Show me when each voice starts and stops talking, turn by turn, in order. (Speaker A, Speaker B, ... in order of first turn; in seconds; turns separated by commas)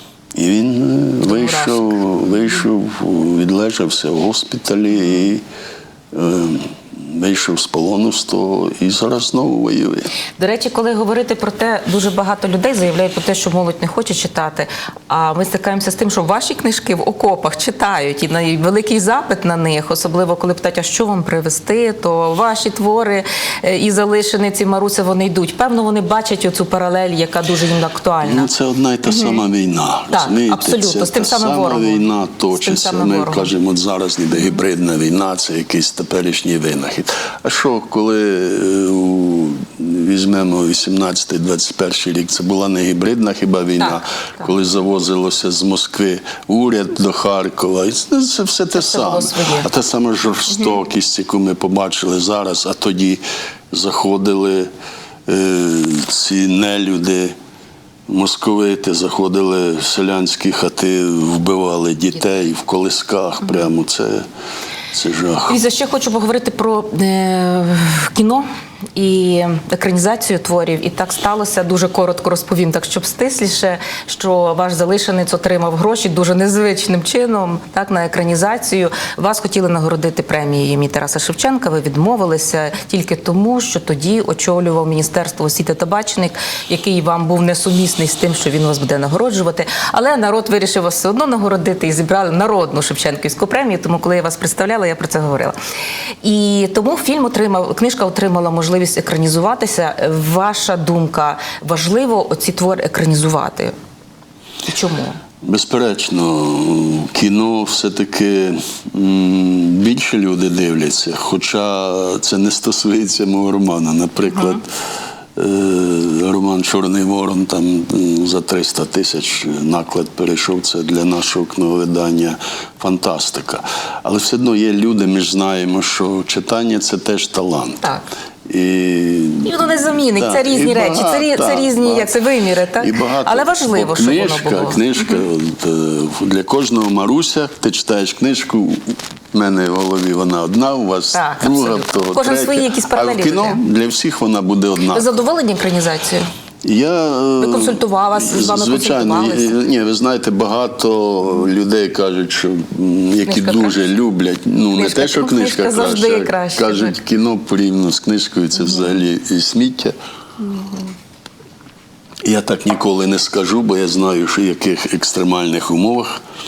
Speaker A: 0.3-5.4, Speaker B: 1.2-2.0, Speaker A: 6.1-10.1, Speaker B: 10.4-28.5, Speaker A: 28.2-54.7, Speaker B: 29.1-29.4, Speaker B: 30.1-33.5, Speaker B: 48.7-49.7, Speaker A: 55.3-57.4, Speaker A: 58.1-64.3, Speaker A: 64.9-65.6, Speaker B: 65.5-95.6, Speaker B: 96.2-103.7, Speaker B: 104.7-105.2, Speaker A: 105.4-114.7, Speaker A: 115.3-127.8, Speaker A: 128.5-132.2, Speaker B: 129.4-135.2, Speaker A: 132.8-145.1, Speaker B: 141.1-143.6, Speaker B: 144.9-146.3, Speaker A: 146.6-159.9, Speaker B: 147.4-149.6, Speaker B: 153.3-153.8, Speaker B: 154.7-156.9, Speaker B: 160.5-160.9, Speaker A: 162.2-166.2